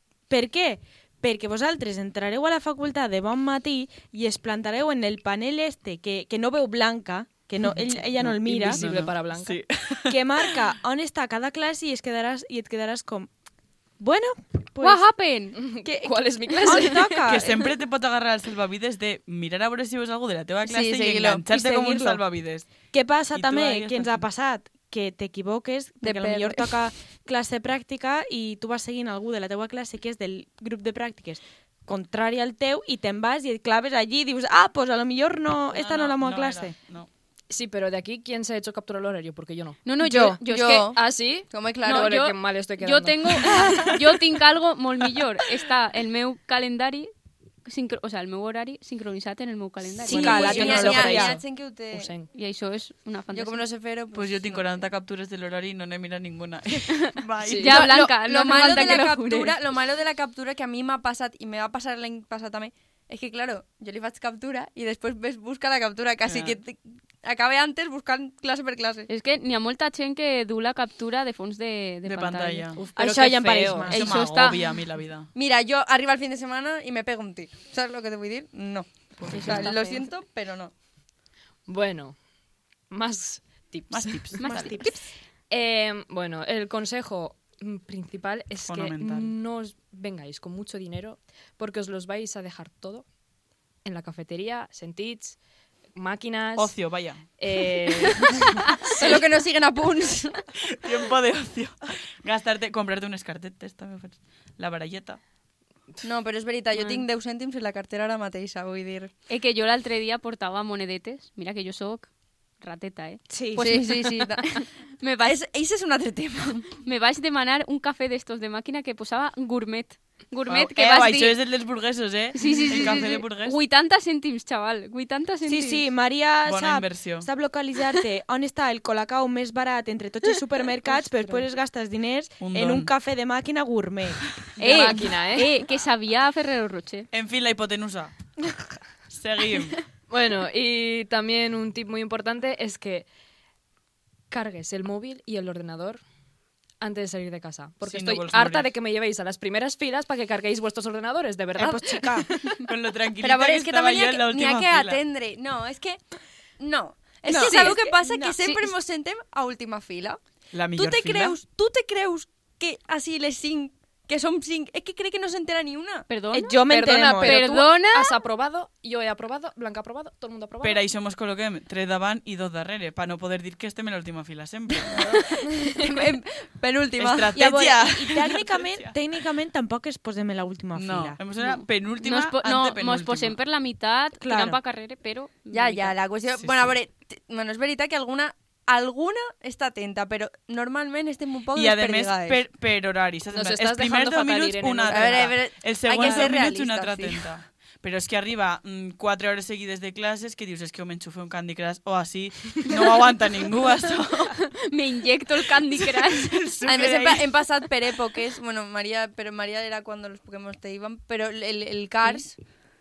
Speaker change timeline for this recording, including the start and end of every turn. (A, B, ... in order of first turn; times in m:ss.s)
0:00.3-0:08.8 A
0:08.0-0:09.6 B
0:08.6-0:10.5 C
0:10.1-0:13.3 A
0:14.0-0:15.0 A
0:14.8-0:15.6 D
0:15.5-0:17.3 B
0:15.8-0:17.6 A
0:17.3-0:22.7 C
0:20.6-0:21.4 E
0:21.5-0:22.2 A
0:22.9-0:36.7 A
0:23.3-0:24.2 C
0:26.0-0:26.8 E
0:35.7-0:37.1 C
0:37.5-0:40.4 B
0:39.8-0:40.9 D
0:40.0-0:42.1 E
0:40.9-0:44.0 B
0:41.8-0:47.1 D
0:43.5-0:44.0 E
0:47.6-0:51.2 D
0:50.0-0:52.1 E
0:50.0-0:51.4 A
0:50.1-0:51.3 B
0:51.9-0:52.3 B
0:52.3-0:53.6 D
0:53.3-0:54.7 E
0:54.1-0:57.9 C
0:57.4-0:57.8 B
0:57.6-0:59.6 D
0:57.7-1:09.1 E
1:06.2-1:06.6 C
1:09.1-1:12.8 D
1:12.0-1:12.8 C
1:12.8-1:13.9 B
1:13.0-1:14.2 A
1:13.9-1:14.7 D
1:13.9-1:15.3 C
1:15.3-1:20.7 E
1:19.2-1:19.7 C
1:19.3-1:20.0 D
1:21.7-1:22.2 B
1:22.9-1:24.7 B
1:23.9-1:24.4 C
1:24.4-1:24.9 D
1:24.4-1:25.0 A
1:25.5-1:33.0 B
1:28.6-1:29.3 C
1:33.8-1:35.4 B
1:35.9-1:36.7 B
1:36.6-1:37.2 C
1:37.4-1:39.2 B
1:39.0-1:40.5 E
1:40.6-1:45.2 C
1:46.0-1:49.1 E
1:46.8-1:47.0 D
1:49.3-1:55.4 D
1:53.3-1:53.7 A
1:53.6-1:54.6 E
1:55.2-1:56.8 E
1:56.8-2:01.4 D
2:00.5-2:03.6 C
2:02.3-2:05.8 D
2:05.4-2:14.9 A
2:06.4-2:07.3 C
2:10.9-2:11.4 B
2:12.4-2:12.9 C
2:14.6-2:15.5 B
2:14.6-2:17.1 D
2:17.1-2:18.2 C
2:19.1-2:19.8 C
2:20.1-2:23.1 B
2:24.3-2:26.0 B
2:26.8-2:32.4 B
2:27.8-2:28.7 C
2:31.5-2:32.3 A
2:32.6-2:35.0 C
2:33.2-2:36.0 E
2:36.6-2:40.2 E
2:37.3-2:38.4 A
2:37.4-2:37.8 B
2:40.5-2:41.4 C
2:40.7-2:46.1 E
2:46.1-2:48.2 D
2:46.1-2:50.8 B
2:46.3-2:47.4 A
2:50.6-2:55.2 C
2:54.8-2:57.4 E
2:57.0-2:58.9 C
2:57.3-3:01.2 A
3:00.7-3:03.4 C
3:01.4-3:06.0 D
3:04.2-3:04.6 A
3:05.5-3:12.4 E
3:06.3-3:06.7 C
3:11.5-3:24.4 C
3:13.3-3:15.3 B
3:14.9-3:17.2 E
3:16.0-3:16.3 B
3:24.4-3:26.4 D
3:25.7-3:27.4 C
3:26.6-3:32.4 E